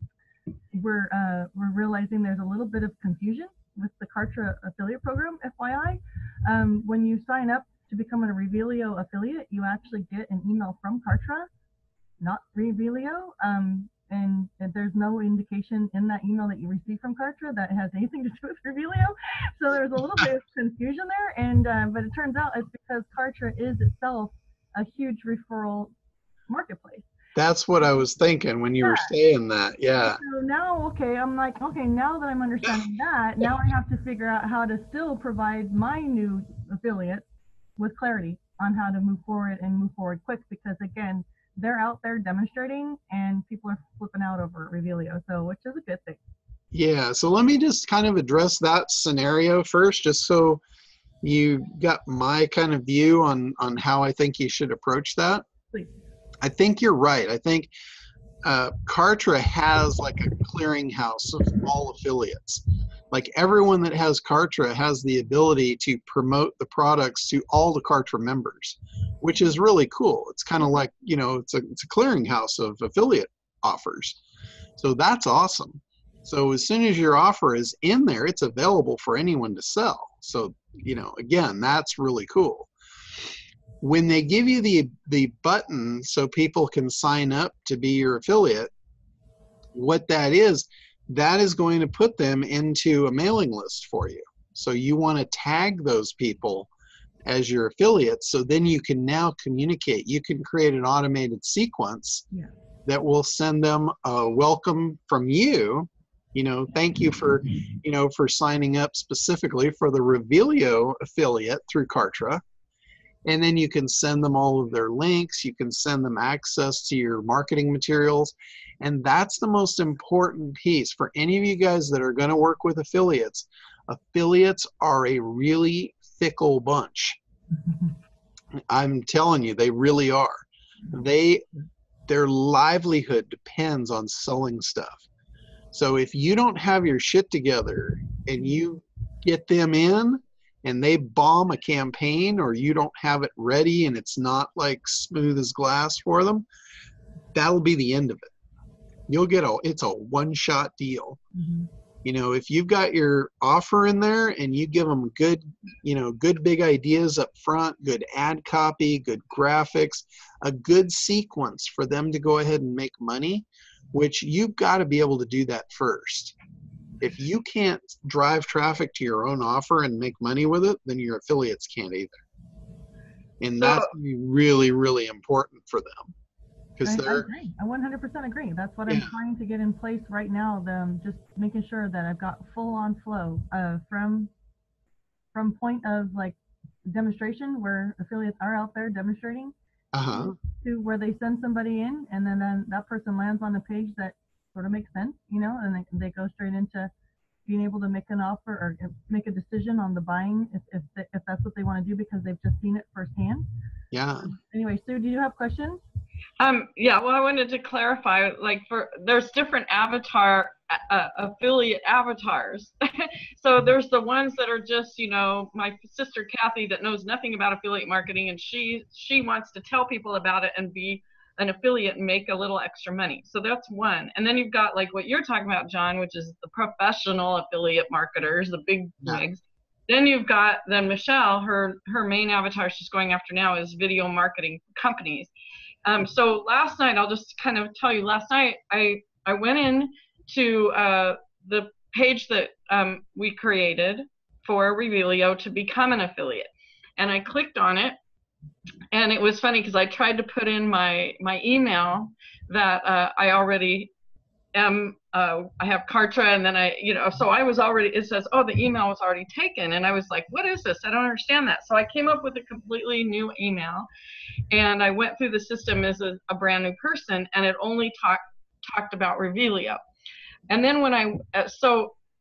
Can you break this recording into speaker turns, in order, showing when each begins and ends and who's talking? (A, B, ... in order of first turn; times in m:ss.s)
0:00.7-0:11.5 A
0:12.2-0:25.9 A
0:26.5-0:27.1 A
0:27.3-0:30.2 B
0:28.8-0:29.1 A
0:30.0-0:37.2 A
0:37.8-0:46.2 A
0:46.7-0:50.6 B
0:51.2-0:55.4 B
0:56.4-0:57.7 B
0:58.4-1:14.2 B
1:14.8-1:22.7 B
1:23.8-1:28.7 B
1:29.7-1:36.7 B
1:37.2-1:42.2 B
1:42.8-1:52.4 B
1:53.2-2:07.2 B
2:08.7-2:11.4 B
2:12.1-2:15.0 B
2:15.7-2:26.4 B
2:27.3-2:28.3 B
2:29.1-2:31.2 B
2:31.4-2:31.7 A
2:32.0-2:46.3 B
2:47.0-2:52.2 B
2:53.4-2:56.1 B
2:53.6-2:53.9 C
2:56.8-2:57.3 B
2:56.8-3:04.3 A
3:05.3-3:09.5 A
3:09.9-3:10.3 B
3:10.1-3:16.9 A
3:17.4-3:23.5 A
3:23.9-3:24.3 B
3:24.3-3:25.8 A
3:26.4-3:55.3 C
3:55.8-4:08.0 C
4:08.9-4:13.9 C
4:14.5-4:23.9 C
4:24.5-4:29.8 C
4:30.5-4:31.9 C